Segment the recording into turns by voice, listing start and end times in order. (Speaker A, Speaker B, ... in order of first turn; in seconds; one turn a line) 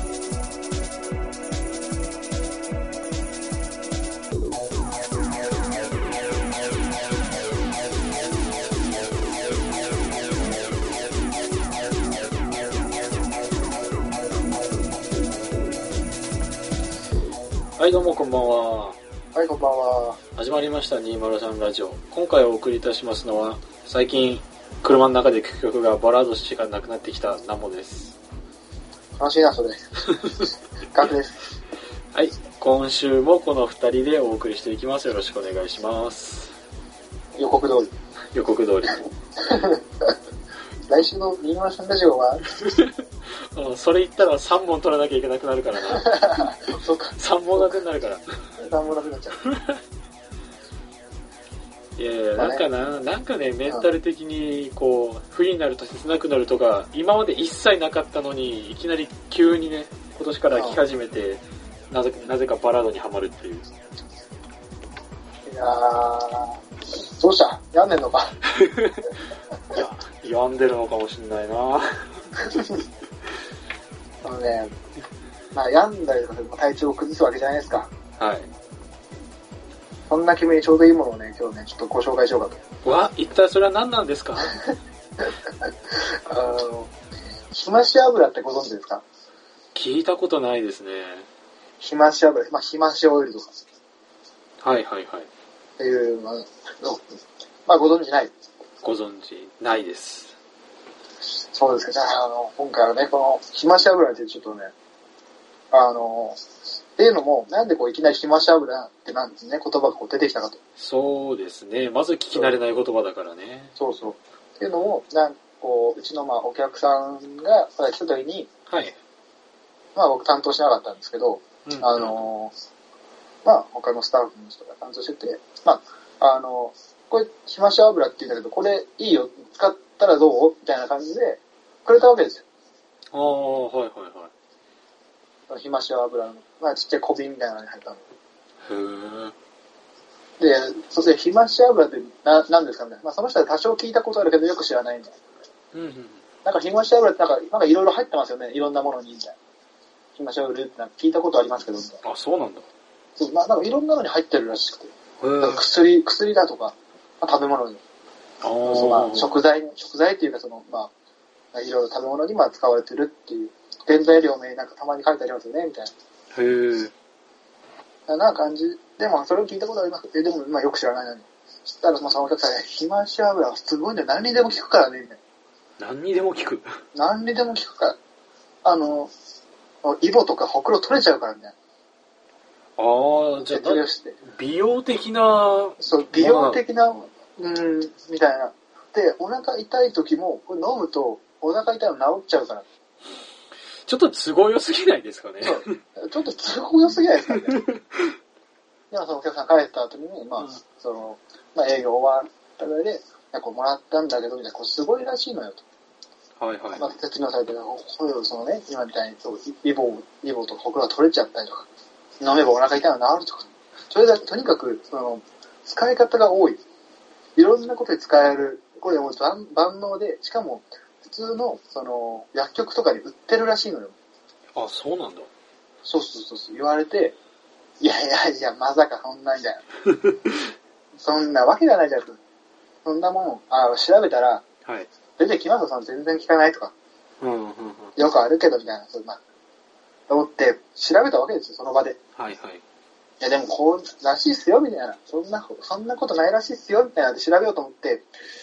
Speaker A: 17.8-19.0
Speaker B: 19.3-20.2
Speaker A: 20.4-28.2
Speaker B: 29.1-31.5
Speaker A: 32.1-36.5
Speaker B: 37.4-37.9
Speaker A: 38.3-39.1
Speaker B: 39.4-39.8
Speaker B: 40.9-42.5
Speaker A: 42.6-43.0
Speaker A: 43.5-46.5
Speaker B: 45.9-47.8
Speaker A: 47.2-48.2
Speaker B: 48.6-49.4
Speaker A: 49.5-49.8
Speaker A: 52.0-63.7
Speaker B: 52.4-52.6
Speaker B: 60.5-60.8
Speaker B: 65.5-66.6
Speaker B: 67.2-68.4
Speaker A: 68.5-69.1
Speaker A: 69.7-72.3
Speaker B: 74.2-74.7
Speaker B: 75.5-77.9
Speaker A: 78.2-78.5
Speaker B: 80.1-82.6
Speaker A: 82.8-84.6
Speaker B: 86.3-86.9
Speaker B: 87.5-89.0
Speaker A: 89.8-91.3
Speaker B: 91.8-93.6
Speaker A: 94.6-95.3
Speaker B: 95.8-97.0
Speaker B: 97.7-98.3
Speaker A: 98.8-100.3
Speaker B: 101.5-104.7
Speaker B: 105.7-106.4
Speaker B: 107.0-110.6
Speaker A: 110.8-113.7
Speaker B: 113.8-118.5
Speaker A: 118.7-119.0
Speaker B: 120.0-122.5
Speaker A: 121.7-122.2
Speaker B: 123.5-132.4
Speaker A: 133.1-134.3
Speaker B: 135.5-138.1
Speaker A: 138.6-139.3
Speaker B: 140.4-145.2
Speaker A: 145.7-146.2
Speaker B: 146.4-149.4
Speaker B: 150.2-152.0
Speaker A: 152.0-152.7
Speaker B: 153.2-157.8
Speaker A: 155.2-155.7
Speaker A: 158.4-159.3
Speaker B: 158.6-160.9
Speaker B: 161.5-165.9
Speaker A: 166.3-166.9
Speaker B: 168.1-175.2
Speaker A: 175.8-176.7
Speaker B: 176.9-178.0
Speaker B: 178.6-179.1
Speaker B: 179.8-181.6
Speaker A: 182.8-186.6
Speaker B: 183.5-184.2
Speaker B: 185.8-192.7
Speaker A: 193.9-195.8
Speaker B: 195.4-197.6
Speaker A: 197.4-198.2
Speaker B: 198.9-205.6
Speaker A: 206.4-206.9
Speaker B: 206.7-211.7
Speaker B: 212.2-216.6
Speaker B: 217.4-223.9
Speaker A: 224.5-225.3
Speaker B: 225.8-227.2
Speaker B: 227.8-229.6
Speaker B: 231.0-232.2
Speaker B: 232.8-234.4
Speaker B: 235.2-236.7
Speaker A: 237.2-237.9
Speaker B: 238.0-239.2
Speaker B: 240.1-242.0
Speaker A: 242.2-242.6
Speaker B: 243.2-248.1